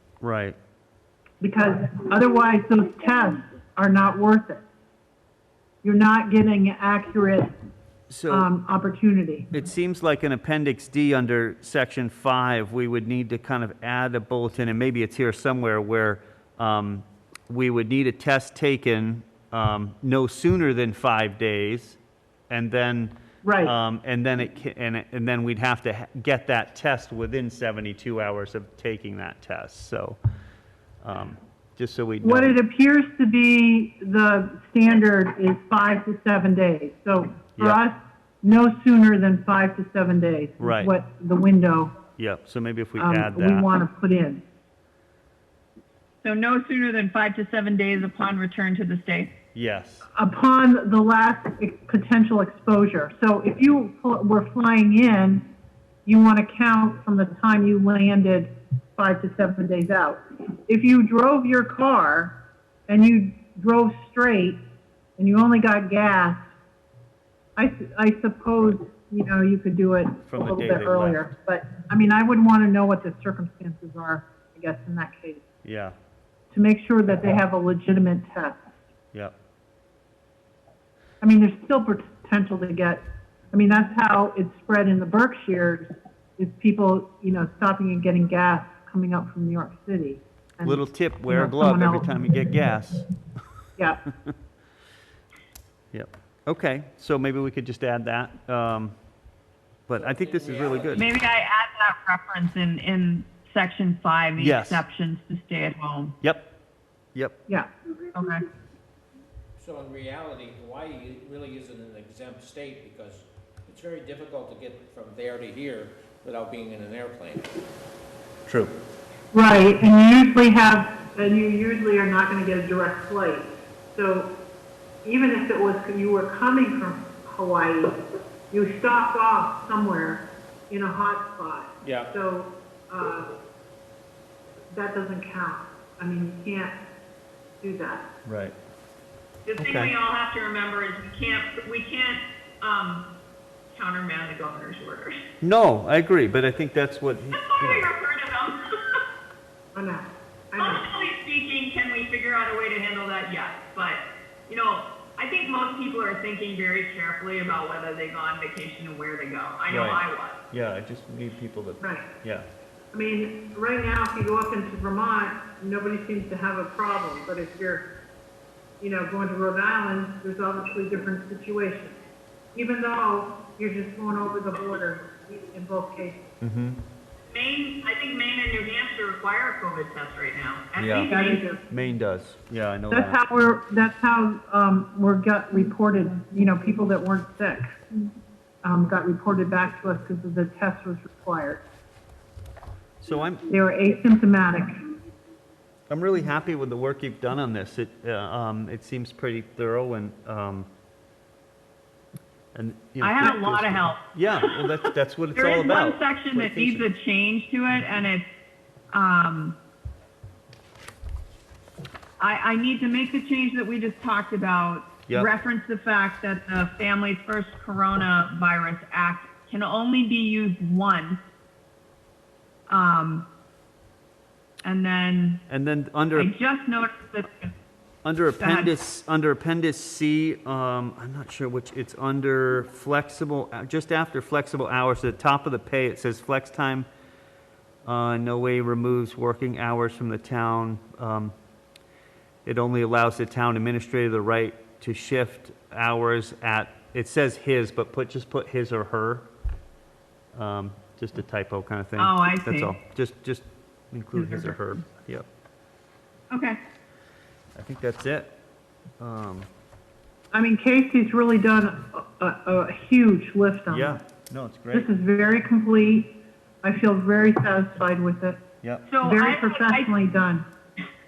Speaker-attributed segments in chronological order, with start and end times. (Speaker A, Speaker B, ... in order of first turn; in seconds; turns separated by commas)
Speaker A: 0.2-0.6, Speaker B: 1.4-4.7, Speaker B: 5.8-7.5, Speaker A: 8.1-8.5, Speaker B: 8.3-9.5, Speaker A: 9.5-22.0, Speaker A: 22.5-30.2, Speaker B: 23.4-23.7, Speaker A: 31.0-32.5, Speaker B: 32.2-42.0, Speaker A: 37.6-37.8, Speaker A: 40.6-40.9, Speaker A: 42.2-43.7, Speaker B: 43.0-44.4, Speaker C: 46.2-49.3, Speaker A: 49.5-50.1, Speaker B: 50.1-55.5, Speaker B: 56.1-62.4, Speaker B: 62.9-64.6, Speaker B: 65.2-66.5, Speaker B: 67.6-75.4, Speaker A: 70.3-71.2, Speaker A: 75.6-76.0, Speaker B: 76.5-78.7, Speaker B: 81.2-92.2, Speaker A: 90.6-93.0, Speaker A: 95.9-99.0, Speaker A: 99.9-101.1, Speaker D: 99.9-101.2, Speaker C: 100.9-106.2, Speaker A: 104.4-104.8, Speaker A: 106.2-106.5, Speaker C: 108.1-108.4, Speaker D: 109.6-117.5, Speaker A: 118.5-118.7, Speaker B: 119.3-124.3, Speaker B: 125.0-128.0, Speaker B: 128.5-133.4, Speaker D: 131.8-132.1, Speaker B: 134.7-136.8, Speaker B: 137.6-138.1, Speaker A: 138.2-138.6, Speaker C: 139.5-143.1, Speaker A: 139.6-139.9, Speaker C: 143.7-145.2, Speaker A: 145.4-147.9, Speaker C: 147.3-149.0, Speaker B: 149.7-150.9, Speaker C: 150.6-160.4, Speaker A: 159.7-162.5, Speaker B: 162.9-167.9, Speaker B: 168.8-172.0, Speaker B: 172.5-176.3, Speaker A: 176.4-176.8, Speaker C: 177.3-181.5, Speaker A: 180.8-181.1, Speaker B: 181.1-181.6, Speaker A: 181.7-183.2, Speaker B: 182.9-187.8, Speaker B: 188.6-191.6, Speaker A: 193.0-193.4, Speaker B: 193.5-194.7, Speaker A: 195.9-200.7, Speaker A: 202.5-206.9, Speaker C: 203.0-204.1, Speaker C: 205.3-208.3, Speaker C: 208.9-209.6, Speaker C: 212.2-221.2, Speaker C: 222.7-223.3, Speaker C: 224.6-225.4, Speaker A: 225.5-226.3, Speaker C: 226.1-227.5, Speaker A: 228.0-236.9, Speaker C: 228.4-228.7, Speaker A: 237.8-241.3, Speaker A: 242.4-249.3, Speaker A: 250.3-255.3, Speaker C: 252.0-252.7, Speaker C: 254.1-254.8, Speaker C: 256.3-256.6, Speaker A: 257.6-258.3, Speaker A: 259.0-259.5, Speaker B: 260.3-264.0, Speaker A: 263.7-264.9, Speaker B: 264.7-268.4, Speaker A: 268.6-268.9, Speaker C: 268.9-269.9, Speaker B: 269.0-270.5